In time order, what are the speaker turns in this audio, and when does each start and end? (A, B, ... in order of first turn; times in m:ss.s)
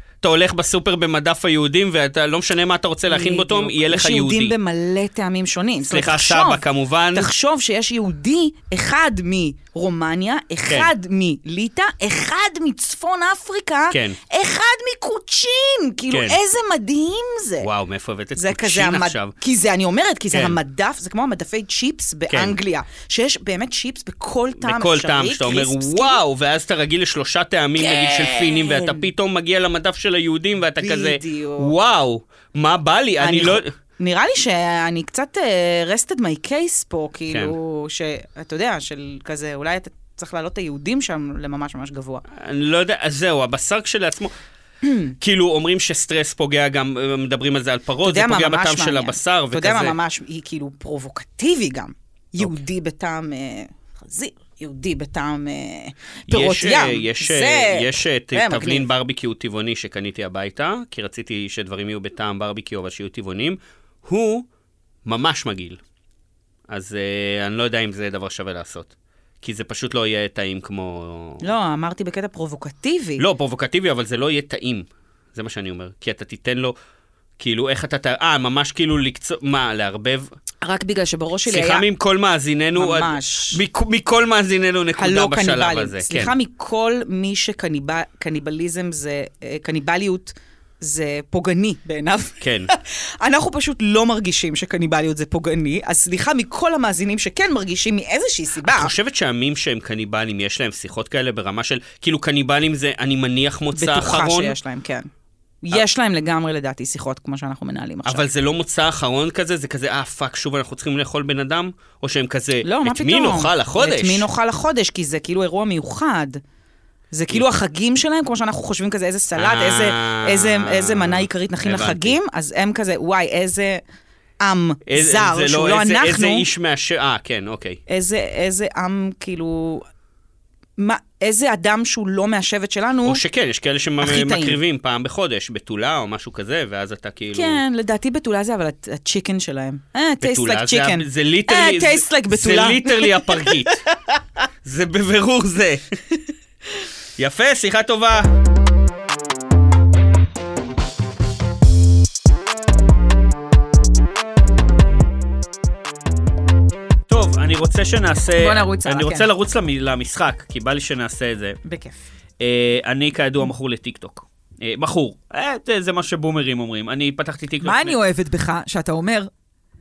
0:00.2-0:04.5 A
0:03.1-0:17.7 B
0:05.9-0:07.3 A
0:10.6-0:10.9 A
0:13.9-0:14.2 A
0:16.1-0:16.4 A
0:17.6-0:19.3 A
0:18.3-0:26.2 B
0:20.3-0:20.6 A
0:22.3-0:22.6 A
0:24.6-0:33.7 A
0:27.8-0:29.1 B
0:30.8-0:31.7 B
0:33.2-0:42.2 B
0:37.3-0:37.6 A
0:42.3-0:44.3 A
0:44.8-0:45.1 B
0:45.2-0:50.0 A
0:48.0-0:58.9 B
0:56.3-1:04.5 A
1:05.0-1:05.8 A
1:06.7-1:11.4 A
1:11.4-1:13.2 B
1:13.2-1:16.7 A
1:17.4-1:20.3 A
1:20.6-1:21.9 B
1:21.5-1:26.3 A
1:22.8-1:23.6 B
1:25.0-1:38.9 B
1:32.4-1:32.7 A
1:38.6-1:44.6 A
1:43.7-1:45.1 B
1:45.6-1:48.2 B
1:48.0-1:54.3 A
1:52.6-1:56.4 B
1:57.1-2:03.8 B
1:59.4-2:02.2 A
2:04.4-2:06.4 B
2:04.8-2:07.8 A
2:07.9-2:09.8 B
2:10.8-2:13.2 B
2:13.0-2:17.6 A
2:14.0-2:14.6 B
2:17.3-2:23.8 B
2:20.2-2:23.8 A
2:24.6-2:26.0 A
2:27.2-2:28.3 A
2:37.1-2:41.6 A
2:38.4-2:39.3 B
2:41.6-2:42.0 B
2:42.4-2:48.0 A
2:47.6-2:49.3 B